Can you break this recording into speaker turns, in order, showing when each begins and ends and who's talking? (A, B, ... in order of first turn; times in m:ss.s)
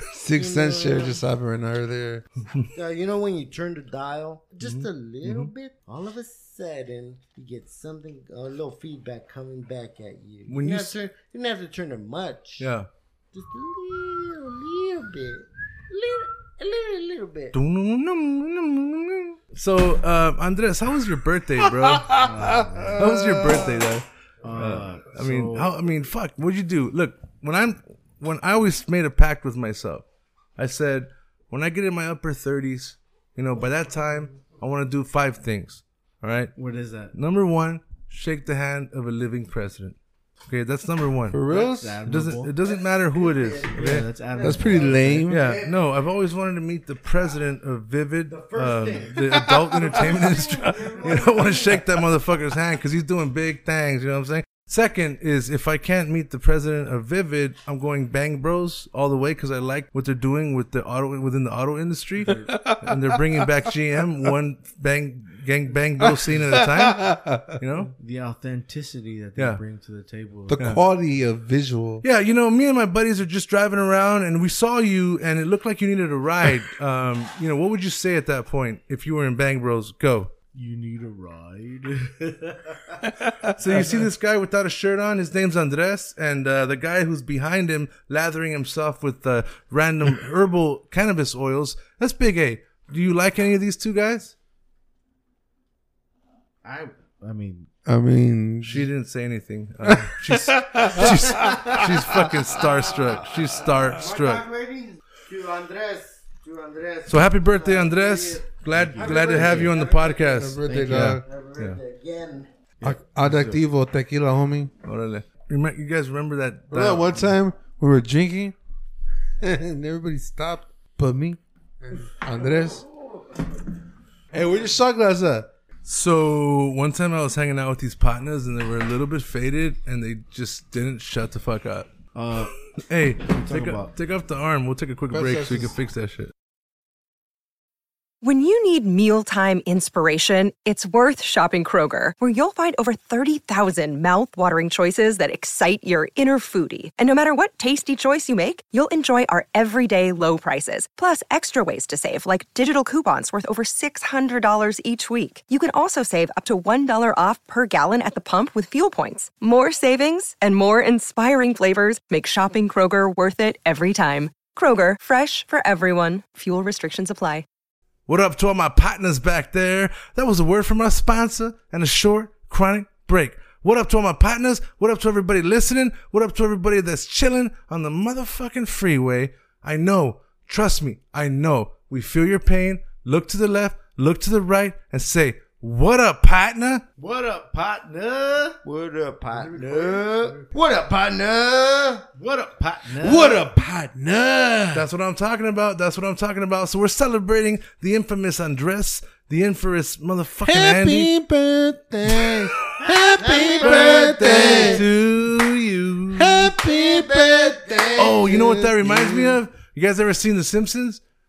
0:00.1-0:02.2 A
0:00.3-0:01.2 B
0:02.8-0:12.7 B
0:04.6-0:05.5 C
0:10.5-0:10.9 C
0:12.6-0:12.9 C
0:13.3-0:17.5 B
0:17.5-0:22.2 C
0:21.7-0:23.9 A
0:22.1-0:23.0 D
0:23.0-0:30.0 C
0:24.4-0:25.7 D
0:30.6-0:36.5 C
0:36.6-0:37.1 D
0:37.1-0:41.4 C
0:41.3-0:42.0 A
0:41.5-0:42.5 D
0:42.0-0:44.1 C
0:43.1-0:45.8 B
0:43.7-0:45.3 D
0:44.4-0:45.5 A
0:45.3-1:07.9 C
0:48.3-0:52.0 B
0:49.3-0:50.5 A
1:02.2-1:02.5 D
1:02.5-1:03.5 A
1:06.0-1:07.6 A
1:08.0-1:10.7 D
1:10.5-1:12.0 A
1:10.6-1:10.8 C
1:12.0-1:20.3 C
1:20.5-1:23.0 D
1:23.5-1:34.3 C
1:36.6-1:37.7 D
1:37.8-1:38.9 A
1:38.6-1:44.4 C
1:39.8-1:42.4 A
1:43.6-1:48.4 B
1:47.1-1:51.8 C
1:48.7-1:49.8 D
1:49.0-1:52.5 B
1:50.3-1:51.2 A
1:50.7-1:51.1 D
1:52.8-1:53.6 D
1:52.8-1:54.7 A
1:54.8-1:57.3 C
1:56.7-1:58.6 A
1:59.4-2:02.8 A
2:04.3-2:05.5 A
2:05.8-2:11.9 C
2:12.2-2:12.5 D
2:12.9-2:16.3 C
2:13.2-2:13.9 D
2:15.2-2:15.7 D
2:18.2-2:47.5 E
2:48.1-3:06.8 C
3:07.0-3:08.6 D
3:08.6-3:12.0 B
3:09.3-3:10.4 D
3:12.2-3:13.4 D
3:13.0-3:14.9 A
3:14.7-3:21.1 C
3:20.4-3:24.8 A
3:23.2-3:24.9 B
3:23.6-3:26.5 C
3:26.2-3:29.4 A
3:26.5-3:28.6 B
3:28.0-3:31.0 C